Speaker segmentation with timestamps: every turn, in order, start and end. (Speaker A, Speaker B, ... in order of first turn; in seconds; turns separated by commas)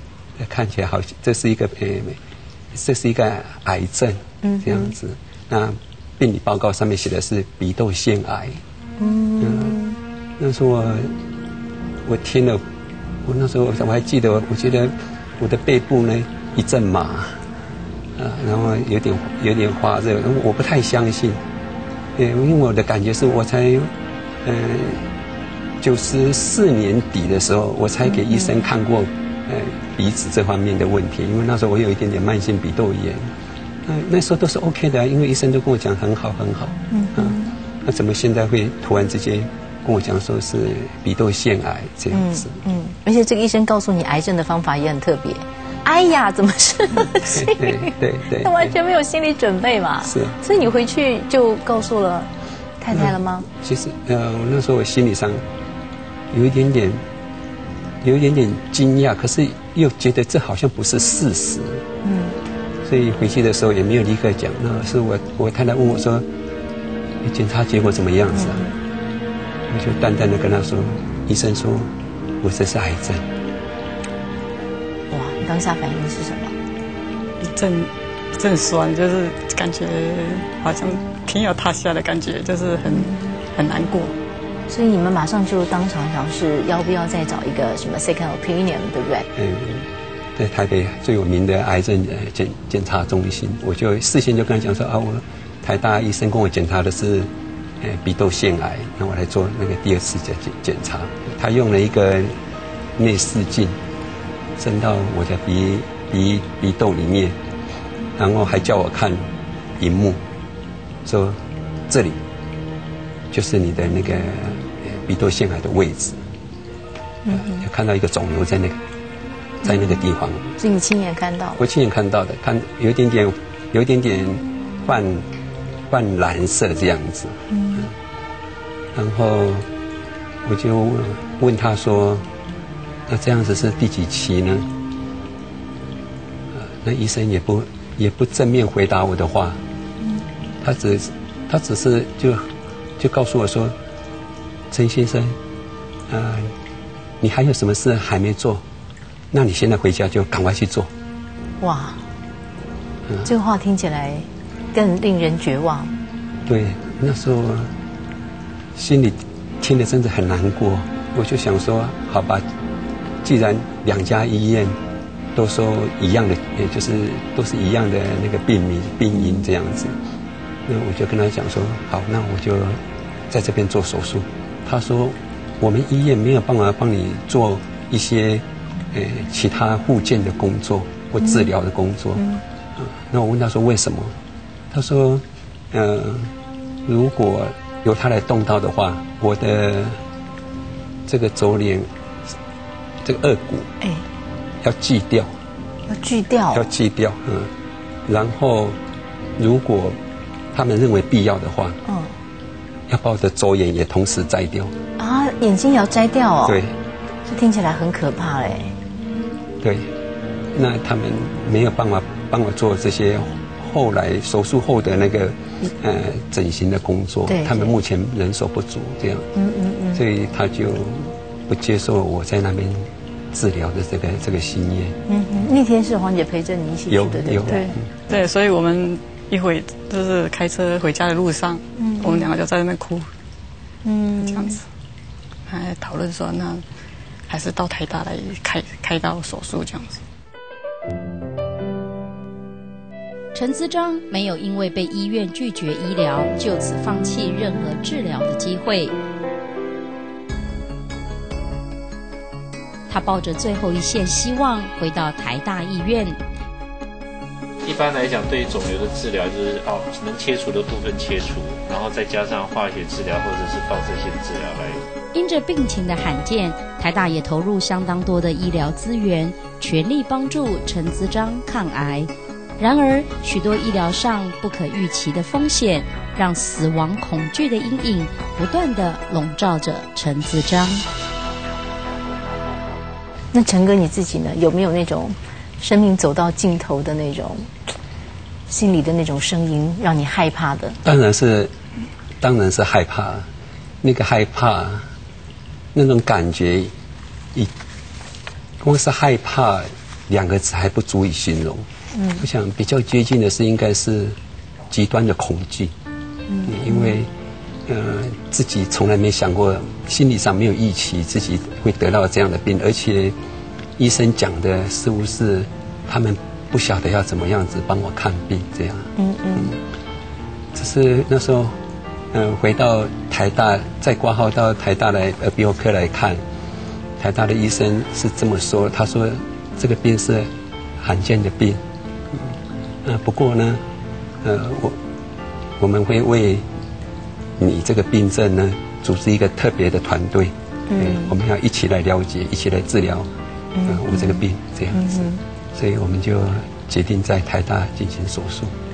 Speaker A: 0.4-2.2, Speaker A: 2.7-8.6, Speaker B: 4.4-4.9, Speaker B: 9.0-10.0, Speaker A: 9.4-9.8, Speaker A: 10.4-11.1, Speaker A: 12.0-12.6, Speaker A: 13.2-17.4, Speaker A: 18.1-21.4, Speaker A: 22.1-25.1, Speaker A: 25.8-33.3, Speaker B: 28.1-28.6, Speaker A: 33.8-42.6, Speaker B: 36.9-37.5, Speaker B: 42.1-53.5, Speaker A: 47.1-48.8, Speaker A: 50.0-50.4, Speaker A: 52.9-55.4, Speaker A: 56.3-57.0, Speaker A: 58.0-61.8, Speaker B: 62.0-62.4, Speaker A: 62.8-66.2, Speaker A: 67.2-68.7, Speaker B: 68.3-68.7, Speaker A: 69.7-73.3, Speaker B: 75.1-76.5, Speaker C: 77.4-84.2, Speaker B: 82.9-83.2, Speaker B: 84.7-89.3, Speaker A: 89.3-102.4, Speaker A: 103.0-103.8, Speaker A: 104.6-107.4, Speaker A: 108.2-110.2, Speaker A: 111.0-112.2, Speaker A: 113.3-116.2, Speaker B: 117.2-117.6, Speaker A: 117.3-118.8, Speaker B: 119.6-120.0, Speaker A: 119.6-120.5, Speaker B: 120.6-121.7, Speaker A: 121.6-125.3, Speaker A: 125.9-127.9, Speaker B: 127.5-127.9, Speaker A: 128.9-129.7, Speaker A: 130.4-132.2, Speaker A: 133.1-134.7, Speaker A: 136.5-139.6, Speaker A: 140.6-143.7, Speaker A: 144.7-145.4, Speaker A: 146.1-146.5, Speaker A: 147.2-148.6, Speaker A: 149.3-150.9, Speaker B: 151.6-152.0, Speaker A: 153.1-153.3, Speaker B: 153.2-155.9, Speaker A: 156.4-157.7, Speaker A: 158.7-162.4, Speaker A: 163.2-164.8, Speaker A: 165.3-170.0, Speaker A: 170.7-182.2, Speaker B: 181.2-181.5, Speaker B: 182.2-182.4, Speaker A: 182.8-184.1, Speaker A: 184.7-186.3, Speaker A: 186.8-190.0, Speaker A: 191.1-191.9, Speaker A: 193.0-193.7, Speaker A: 194.6-195.3, Speaker B: 195.9-196.7, Speaker A: 196.5-197.5, Speaker A: 198.1-198.8, Speaker A: 199.4-200.0, Speaker A: 200.5-201.8, Speaker B: 201.9-202.1, Speaker A: 202.9-204.7, Speaker B: 205.0-206.6, Speaker A: 206.4-206.8, Speaker B: 207.3-208.7, Speaker A: 209.6-209.9, Speaker A: 210.5-219.3, Speaker B: 217.3-217.8, Speaker B: 219.3-220.0, Speaker A: 219.9-225.0, Speaker B: 225.1-227.8, Speaker A: 226.9-227.9, Speaker C: 227.5-233.1, Speaker B: 231.8-232.3, Speaker B: 233.8-234.6, Speaker C: 234.2-234.6, Speaker C: 235.5-236.6, Speaker C: 237.3-240.0, Speaker D: 243.3-248.9, Speaker D: 252.9-256.2, Speaker E: 257.6-264.8, Speaker D: 265.1-280.8, Speaker B: 283.3-287.5, Speaker B: 288.5-290.8, Speaker A: 290.8-291.5, Speaker A: 292.2-293.3, Speaker A: 293.8-294.9, Speaker A: 295.7-296.7, Speaker A: 298.6-301.6, Speaker B: 301.9-302.2, Speaker A: 302.2-304.2, Speaker A: 304.7-305.7, Speaker B: 306.3-306.9, Speaker A: 306.4-307.1, Speaker A: 307.6-313.1, Speaker A: 313.8-319.6, Speaker B: 319.0-319.5, Speaker A: 320.5-321.6, Speaker A: 322.1-326.2, Speaker A: 327.0-333.6, Speaker A: 334.2-334.8, Speaker A: 335.6-336.5, Speaker A: 337.4-343.1, Speaker B: 340.7-341.1, Speaker B: 343.5-345.2, Speaker A: 343.6-348.6